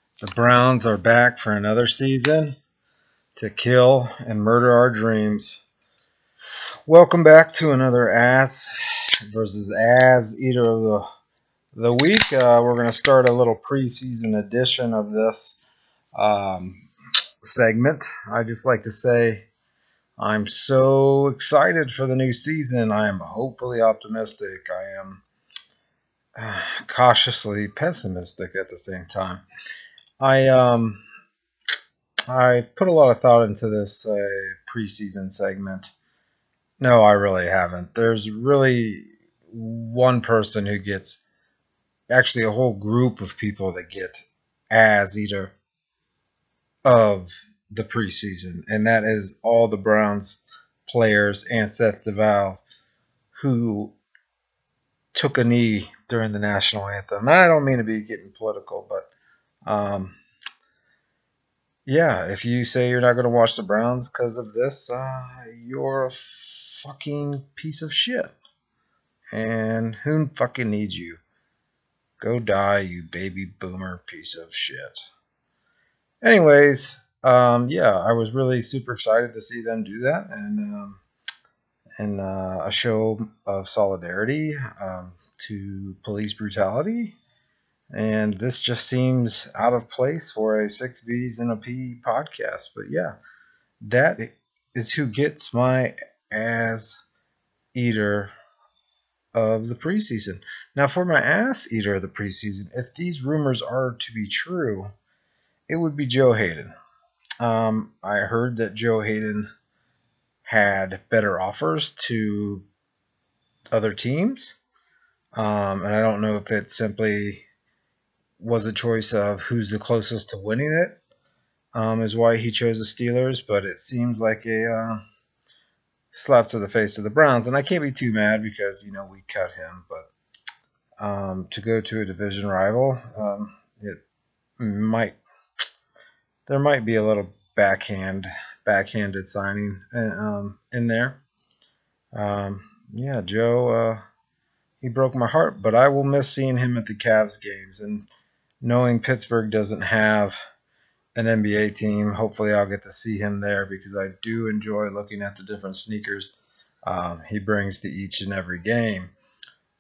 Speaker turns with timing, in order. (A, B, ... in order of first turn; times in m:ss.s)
0:00.2-0:02.6 A
0:03.4-0:05.6 A
0:06.9-0:08.7 A
0:09.3-0:11.0 A
0:11.8-0:15.6 A
0:16.2-0:16.8 A
0:17.4-0:19.4 A
0:20.2-0:25.2 A
0:26.4-0:29.4 A
0:30.2-0:31.0 A
0:32.3-0:35.9 A
0:36.8-0:41.2 A
0:42.1-0:45.5 A
0:46.8-0:52.6 A
0:53.4-0:54.0 A
0:55.1-0:59.1 A
0:59.6-1:00.2 A
1:01.9-1:08.4 A
1:09.3-1:11.2 A
1:12.2-1:15.1 A
1:16.2-1:21.0 A
1:22.0-1:27.2 A
1:27.9-1:33.2 A
1:33.8-1:37.0 A
1:37.7-1:38.3 A
1:39.3-1:44.9 A
1:45.7-1:46.8 A
1:47.4-1:49.5 A
1:50.5-1:52.7 A
1:53.7-1:54.6 A
1:55.4-1:57.4 A
1:58.4-2:01.0 A
2:01.7-2:05.0 A
2:06.1-2:10.1 A
2:11.0-2:14.0 A
2:14.6-2:15.2 A
2:16.5-2:21.2 A
2:22.1-2:24.0 A
2:24.8-2:28.1 A
2:28.6-2:30.4 A
2:31.2-2:36.3 A
2:36.8-2:39.1 A